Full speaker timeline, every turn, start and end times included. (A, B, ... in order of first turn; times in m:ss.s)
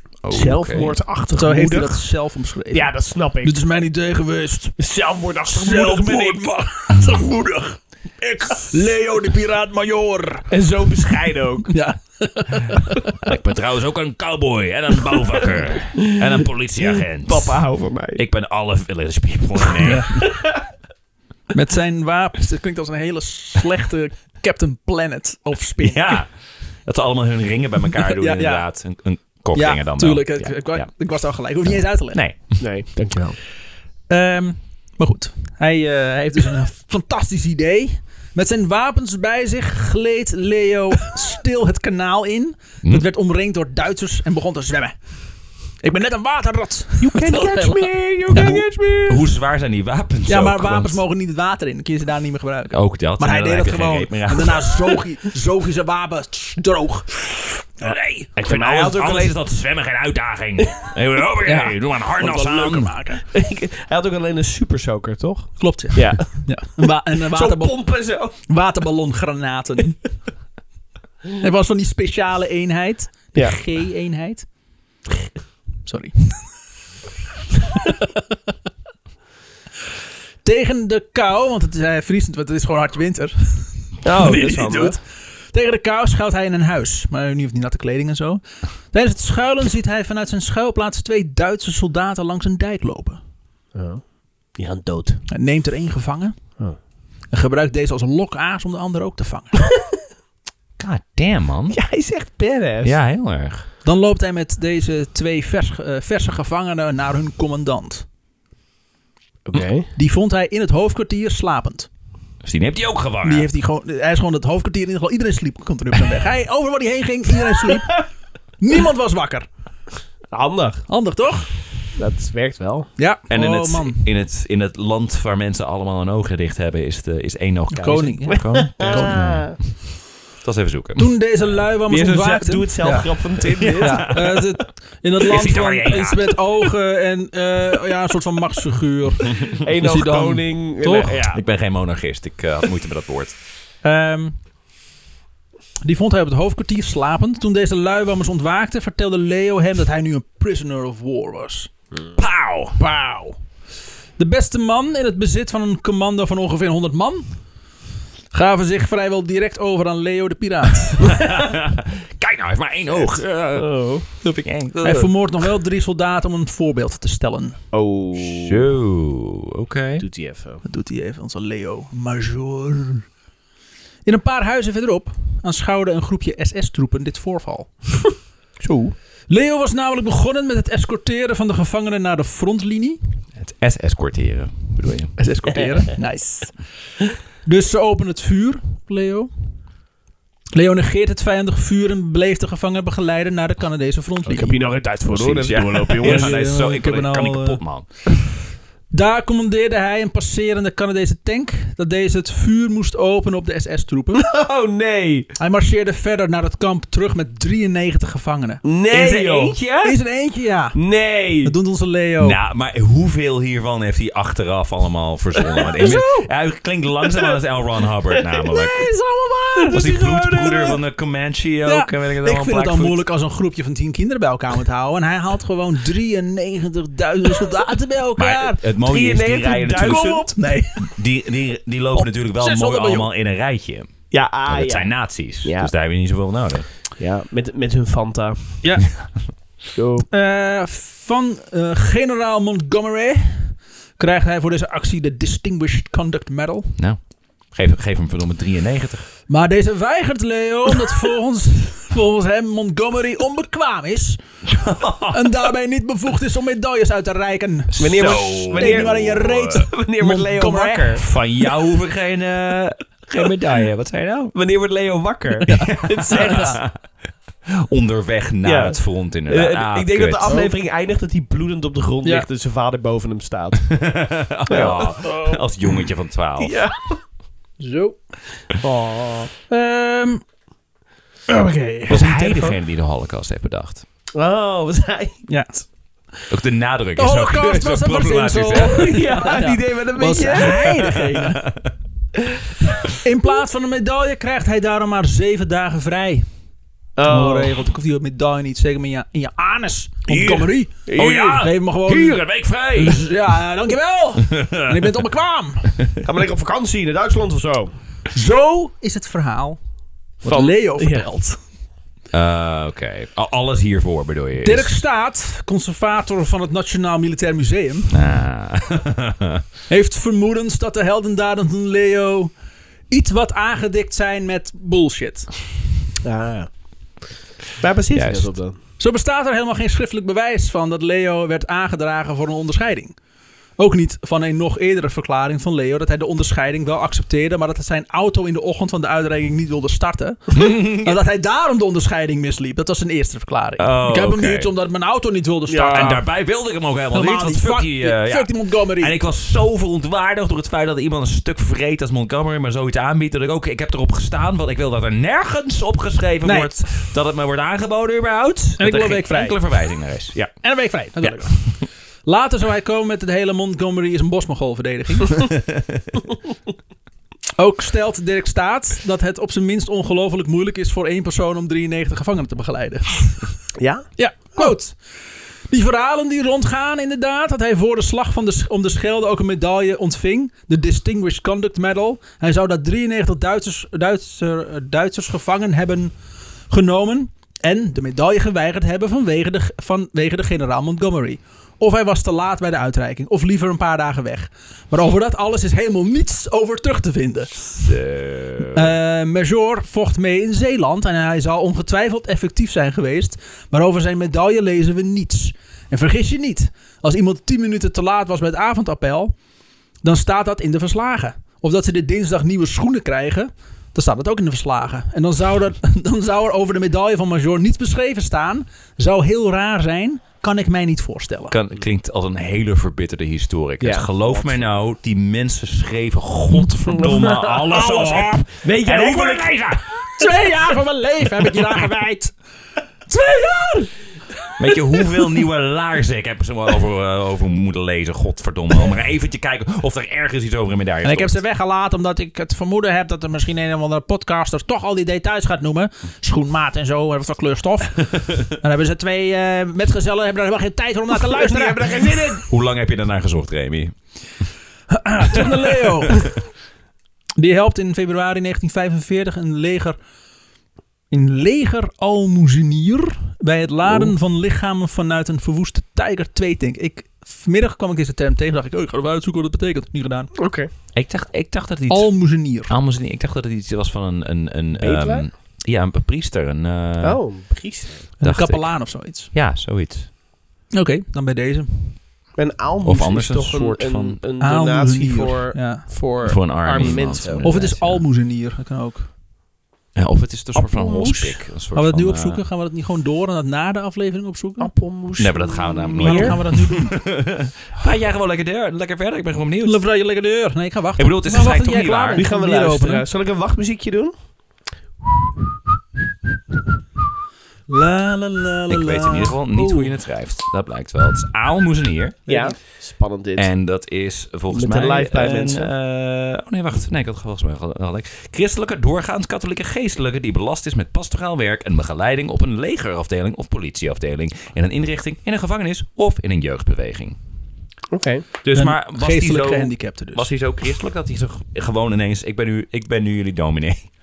0:00.2-0:00.9 A
0:00.3-0:02.0 B
0:01.3-0:04.8 C
0:02.7-0:03.6 B
0:04.8-0:06.4 B
0:05.5-0:10.5 C
0:10.5-0:11.7 B
0:11.7-0:13.1 C
0:13.2-0:17.6 A
0:16.8-0:18.2 B
0:18.1-0:20.3 A
0:19.8-0:20.2 C
0:21.5-0:26.2 C
0:25.8-0:30.9 A
0:28.0-0:28.7 C
0:29.5-0:32.2 C
0:31.6-0:32.6 A
0:32.6-0:33.4 B
0:34.1-0:44.9 C
0:45.8-0:48.6 C
0:47.0-0:49.3 B
0:48.3-0:51.0 A
0:50.3-0:57.7 C
0:52.7-0:54.8 A
0:57.8-0:59.4 B
0:57.8-1:02.9 A
1:01.4-1:03.2 C
1:03.3-1:08.3 B
1:05.6-1:10.0 C
1:11.4-1:14.5 C
1:15.8-1:16.4 C
1:17.7-1:18.2 C
1:20.4-1:25.0 C
1:24.0-1:25.0 B
1:25.5-1:33.2 C
1:33.8-1:35.2 B
1:35.3-1:36.4 C
1:37.3-1:39.6 C
1:40.8-1:41.8 A
1:41.7-1:43.0 B
1:42.8-1:43.7 A
1:43.8-1:48.0 C
1:49.4-1:49.9 B
1:49.9-1:51.9 C
1:52.4-1:53.5 A
1:53.2-1:58.0 C
1:58.6-1:59.5 C
2:00.3-2:00.9 B
2:00.9-2:01.6 C
2:02.0-2:02.9 B
2:03.0-2:04.1 C
2:03.3-2:09.8 A
2:07.7-2:09.2 C
2:08.3-2:09.6 B
2:10.4-2:11.1 A
2:11.0-2:21.3 C
2:11.9-2:14.1 B
2:13.5-2:14.4 A
2:15.2-2:16.4 A
2:19.6-2:21.4 B
2:21.3-2:23.4 A
2:23.8-2:24.4 C
2:25.8-2:31.7 C
2:32.2-2:32.8 A
2:32.8-2:33.4 C
2:34.2-2:37.4 C
2:38.3-2:41.2 C
2:41.0-2:43.7 A
2:43.5-2:44.1 B
2:44.2-2:45.2 A
2:44.8-2:47.6 C
2:47.7-2:48.7 B
2:48.2-2:50.0 A
2:50.0-2:50.6 B
2:50.6-2:53.1 C
2:54.0-2:57.8 C
2:58.6-2:58.9 B
2:59.3-3:03.0 C
3:03.4-3:05.1 A
3:05.2-3:06.6 C
3:07.4-3:09.3 C
3:10.5-3:14.6 C
3:14.2-3:16.4 B
3:15.1-3:17.9 A
3:16.0-3:17.6 C
3:18.9-3:24.3 C
3:24.2-3:25.3 B
3:25.4-3:28.6 C
3:28.6-3:29.6 B
3:28.9-3:29.9 A
3:29.8-3:30.8 C
3:30.8-3:31.5 B
3:31.4-3:32.4 C
3:32.2-3:38.9 A
3:35.8-3:36.3 C
3:38.1-3:38.6 B
3:38.6-3:39.9 C
3:39.6-3:40.8 B
3:39.7-3:43.0 A
3:41.6-3:48.6 C
3:48.2-3:50.2 A
3:48.8-3:50.3 B
3:49.8-3:50.9 C
3:50.8-3:56.7 A
3:51.9-3:53.1 C
3:54.1-3:55.7 B
3:57.0-3:58.6 B
3:58.6-3:58.9 C
3:59.7-4:00.1 B
4:00.1-4:06.8 C
4:06.8-4:09.0 A
4:09.3-4:14.2 C
4:14.5-4:15.3 A
4:15.1-4:21.0 C
4:17.7-4:19.6 A
4:17.8-4:21.0 B
4:21.0-4:24.3 A
4:24.3-4:26.6 B
4:25.5-4:26.6 C
4:25.5-4:26.8 A
4:27.5-4:30.3 A
4:28.4-4:33.9 B
4:30.2-4:30.5 C
4:33.7-4:36.6 A
4:34.5-4:35.4 B
4:36.4-4:37.0 B
4:37.6-4:38.0 C
4:38.6-4:39.3 B
4:39.5-4:40.2 C
4:41.3-4:42.0 C
4:41.9-4:42.5 B
4:41.9-4:43.8 A
4:44.1-4:45.2 B
4:45.3-4:45.6 C
4:46.3-4:49.0 A
4:47.0-4:51.4 C
4:48.7-4:51.0 B
4:50.5-4:51.7 A
4:53.0-4:56.2 C
4:57.0-4:57.6 B
4:57.0-5:05.8 C
5:00.1-5:03.0 A
5:00.2-5:01.4 B
5:04.3-5:04.9 A
5:06.0-5:07.7 B
5:08.1-5:09.6 C
5:10.2-5:11.4 C
5:10.2-5:11.1 B
5:12.1-5:14.8 A
5:14.4-5:18.0 C
5:17.9-5:19.4 A
5:19.7-5:22.3 C
5:22.9-5:25.3 C
5:26.0-5:26.5 B
5:27.6-5:28.6 B
5:27.9-5:28.3 A
5:28.8-5:33.0 C
5:33.6-5:46.0 C
5:40.3-5:41.0 A
5:43.6-5:44.5 A
5:45.5-5:46.0 B
5:45.7-6:00.4 A
5:46.9-5:49.0 C
5:56.2-5:56.6 C
5:58.6-5:59.4 C
6:00.4-6:05.3 C
6:01.0-6:01.3 A
6:07.4-6:13.3 C
6:13.6-6:13.9 B
6:14.0-6:14.8 C
6:15.5-6:25.9 C
6:26.5-6:37.5 C
6:37.5-6:38.7 A
6:38.5-6:49.1 C
6:49.8-7:01.4 C
7:01.3-7:09.6 A
7:03.6-7:04.4 B
7:06.7-7:09.5 B
7:10.0-7:12.1 C
7:12.9-7:13.7 C
7:14.4-7:21.2 A
7:20.8-7:32.0 C
7:31.0-7:32.2 B
7:32.3-7:33.8 A
7:34.7-7:36.1 C
7:35.1-7:35.9 A
7:37.2-7:39.8 C
7:40.9-7:50.1 C
7:50.2-7:50.5 B
7:50.7-7:57.0 A
7:51.7-7:52.5 C
7:54.6-7:55.1 B
7:56.8-7:57.9 B
7:58.0-7:59.1 C
7:58.0-7:59.9 A
8:00.5-8:01.8 C
8:02.2-8:07.3 B
8:02.6-8:04.0 A
8:04.2-8:05.7 C
8:06.0-8:07.8 A
8:07.2-8:08.9 C
8:09.8-8:12.2 A
8:10.4-8:11.2 B
8:11.5-8:14.5 C
8:14.4-8:16.2 B
8:15.0-8:19.6 A
8:15.8-8:16.8 C
8:19.4-8:22.8 C
8:20.8-8:22.0 A
8:21.9-8:23.9 B
8:27.5-8:29.7 C
8:28.5-8:32.0 A
8:32.1-8:32.4 C
8:32.1-8:33.3 B
8:33.2-8:47.0 A
8:34.3-8:35.5 B
8:47.7-8:48.1 B
8:48.2-8:53.7 A
8:48.3-8:50.1 C